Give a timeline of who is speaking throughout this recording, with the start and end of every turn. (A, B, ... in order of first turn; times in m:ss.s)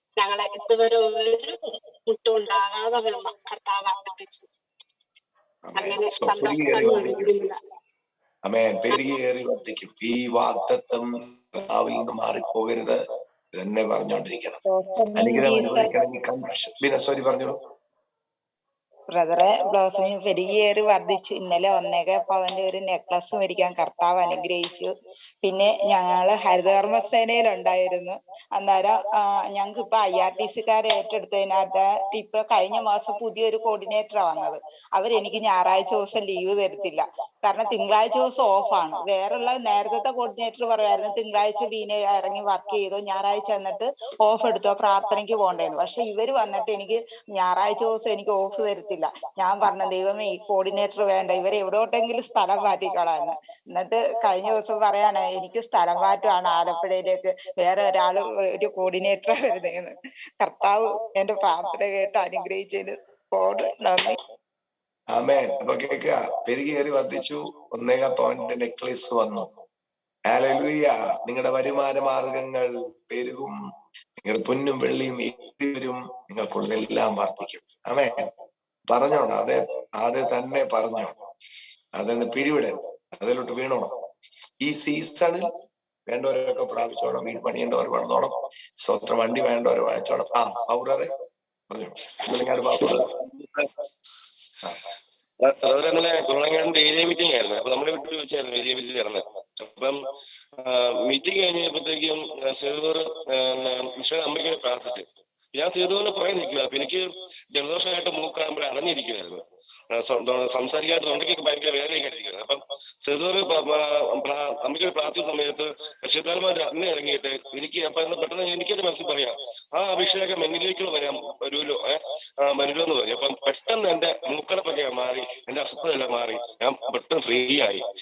0:00.2-0:04.4 A
0:05.7-0:07.4 B
0:05.8-0:07.6 A
0:08.5-0:13.0 B
0:13.5-0:14.6 B
0:14.7-0:15.9 C
0:15.2-0:17.6 B
0:19.2-0:24.9 C
0:25.4-1:04.2 C
1:05.1-1:09.5 B
1:10.3-1:13.6 B
1:14.2-1:18.3 B
1:18.9-1:21.2 B
1:22.0-1:23.9 B
1:24.6-1:25.5 B
1:26.1-1:31.1 B
1:31.7-1:33.1 B
1:32.9-1:33.7 D
1:35.4-1:40.0 D
1:40.6-2:07.8 D